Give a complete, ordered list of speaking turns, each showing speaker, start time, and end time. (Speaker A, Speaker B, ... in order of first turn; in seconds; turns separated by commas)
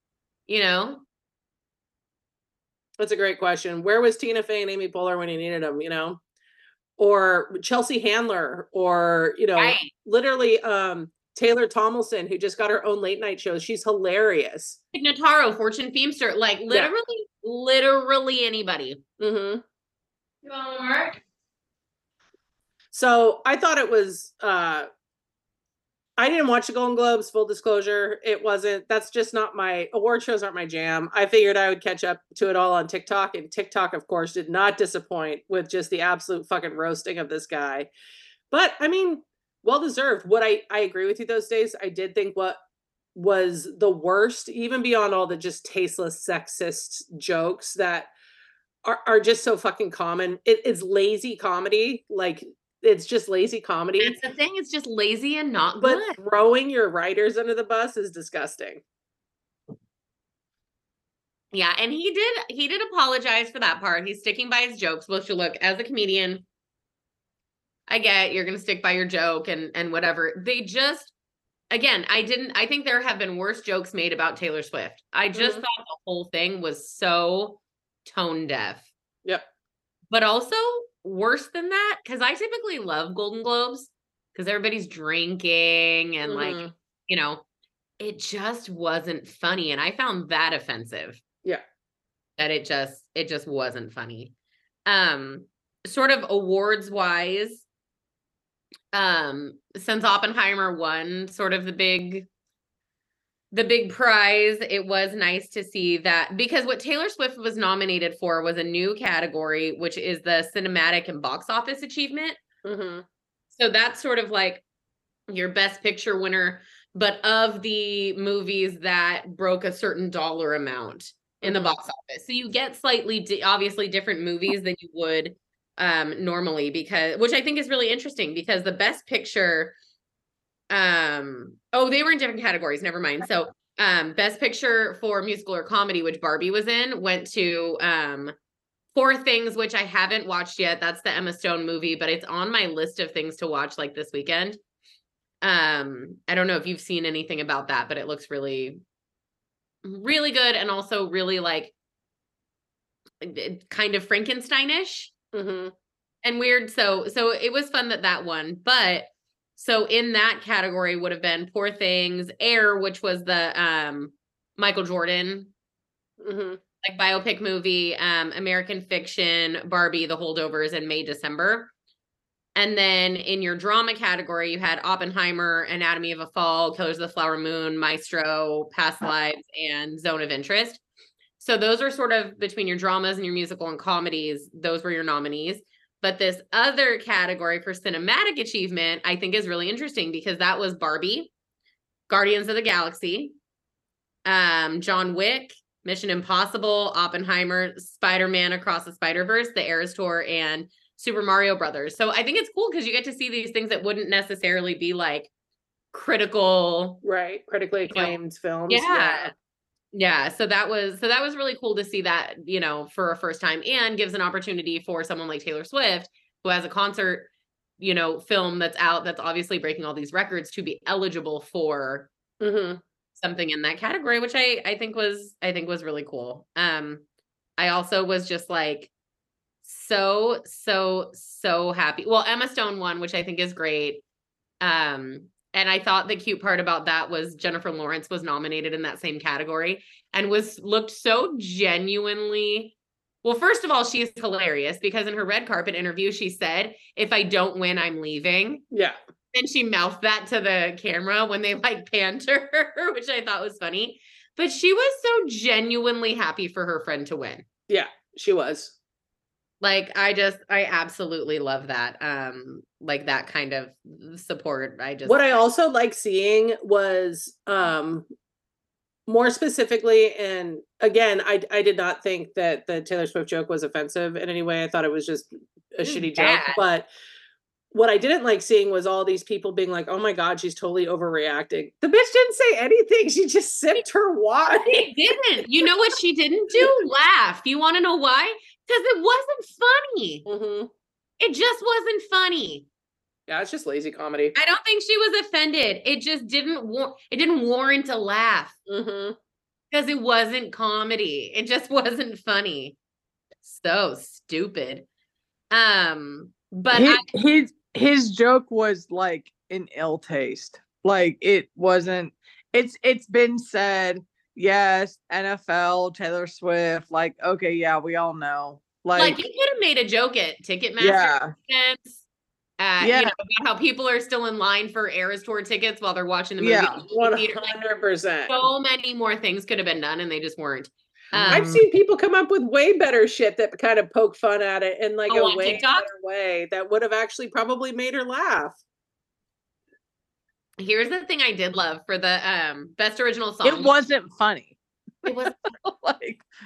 Speaker A: 0.5-1.0, Speaker B: 3.0-6.2, Speaker B: 7.0-14.8, Speaker A: 9.6-9.9, Speaker A: 14.9-19.0, Speaker B: 19.2-19.6, Speaker A: 20.4-21.2, Speaker B: 22.9-24.9, Speaker B: 26.2-37.9, Speaker B: 38.5-42.6, Speaker B: 43.1-48.1, Speaker B: 48.9-54.2, Speaker A: 54.0-56.2, Speaker B: 55.8-58.8, Speaker A: 61.5-66.5, Speaker A: 67.9-71.1, Speaker A: 71.7-78.9, Speaker B: 75.3-75.6, Speaker A: 80.1-87.4, Speaker B: 86.3-86.7, Speaker A: 88.0-91.2, Speaker A: 92.4-94.3, Speaker A: 94.9-97.7, Speaker A: 98.9-102.3, Speaker A: 103.5-112.4, Speaker B: 112.7-113.0, Speaker A: 113.5-114.6, Speaker A: 115.3-129.8, Speaker B: 121.4-121.8, Speaker A: 130.7-138.3, Speaker A: 138.9-144.6, Speaker A: 145.4-148.8, Speaker A: 149.8-151.7, Speaker A: 153.2-155.1, Speaker B: 155.3-155.7, Speaker A: 156.2-165.5, Speaker B: 166.2-166.6, Speaker A: 166.8-171.7, Speaker A: 172.6-180.8, Speaker A: 181.4-191.3, Speaker A: 192.1-193.3, Speaker A: 194.2-205.3, Speaker A: 205.9-207.0, Speaker B: 207.0-209.3, Speaker A: 207.9-208.2, Speaker A: 208.7-209.3, Speaker A: 209.9-222.1, Speaker B: 222.4-222.8, Speaker A: 223.2-227.0, Speaker A: 227.6-228.9, Speaker A: 229.6-234.0, Speaker A: 234.6-248.6, Speaker B: 248.7-249.0, Speaker A: 249.3-257.5, Speaker B: 257.7-258.7, Speaker A: 259.6-265.2, Speaker B: 265.1-268.1, Speaker B: 269.1-276.9, Speaker A: 275.8-276.6, Speaker B: 277.7-284.9, Speaker A: 284.6-290.3, Speaker B: 290.3-290.7, Speaker A: 291.2-292.7, Speaker B: 293.3-294.4, Speaker A: 294.4-298.6, Speaker B: 298.7-299.2, Speaker A: 299.7-302.8, Speaker A: 303.4-304.9, Speaker A: 305.5-307.1, Speaker C: 306.7-319.2, Speaker A: 319.0-322.0, Speaker C: 320.8-321.3, Speaker A: 322.6-327.5, Speaker C: 322.8-323.1, Speaker C: 326.4-326.8, Speaker B: 326.9-328.3, Speaker A: 328.3-331.6, Speaker B: 331.1-338.6, Speaker C: 331.2-331.6, Speaker A: 335.1-335.9, Speaker A: 340.6-343.7, Speaker C: 343.4-346.2, Speaker A: 345.1-345.4